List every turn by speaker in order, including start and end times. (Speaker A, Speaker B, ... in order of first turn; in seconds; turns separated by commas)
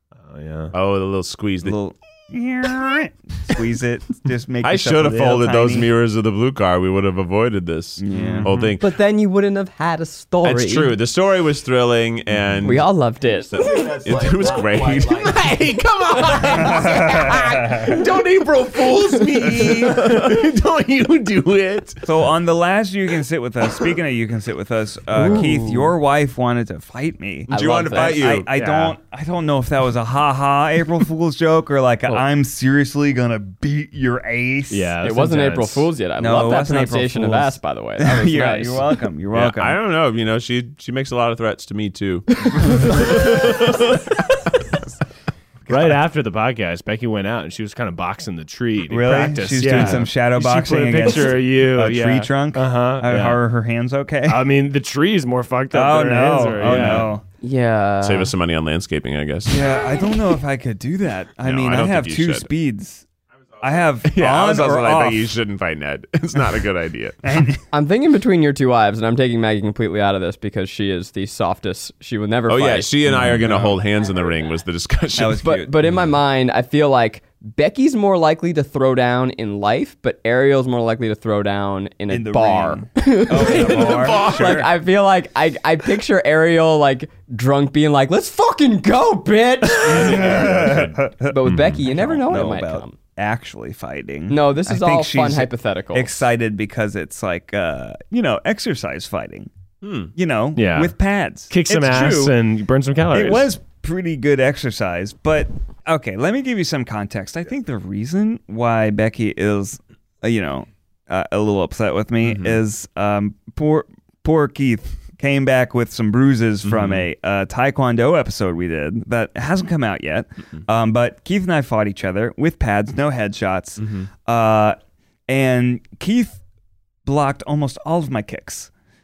Speaker A: 0.2-0.7, Speaker B: 0.7-1.8, Speaker C: 1.6-5.9, Speaker B: 4.6-8.9, Speaker C: 8.0-8.5, Speaker A: 8.1-8.7, Speaker D: 8.8-10.9, Speaker B: 10.4-12.9, Speaker D: 12.6-13.6, Speaker B: 13.5-22.0, Speaker C: 14.4-15.0, Speaker C: 16.6-17.9, Speaker C: 22.1-35.0, Speaker D: 25.2-25.8, Speaker B: 27.5-28.9, Speaker D: 27.5-28.6, Speaker A: 34.7-35.9, Speaker D: 35.0-38.9, Speaker C: 36.2-39.8, Speaker B: 39.3-43.6, Speaker A: 43.0-43.7, Speaker A: 45.7-53.4, Speaker C: 48.9-54.5, Speaker A: 54.3-57.1, Speaker C: 55.7-57.2, Speaker D: 57.4-58.3, Speaker B: 58.0-59.7, Speaker C: 59.5-63.0, Speaker B: 61.4-62.5, Speaker C: 63.6-65.3, Speaker B: 64.0-67.2, Speaker C: 67.2-67.6, Speaker D: 67.7-72.9, Speaker B: 72.5-75.4, Speaker C: 73.1-73.8, Speaker C: 75.2-75.7, Speaker D: 75.4-90.6, Speaker C: 82.1-84.7, Speaker B: 83.4-84.6, Speaker B: 89.8-91.8, Speaker C: 89.8-99.5, Speaker D: 91.3-93.0, Speaker D: 94.3-96.2, Speaker B: 99.8-100.1, Speaker C: 100.2-102.3, Speaker A: 100.6-100.9, Speaker A: 101.5-103.5, Speaker C: 103.1-124.8, Speaker B: 112.2-112.6, Speaker B: 116.7-117.1, Speaker B: 123.8-124.1, Speaker C: 125.3-126.4, Speaker C: 127.0-128.7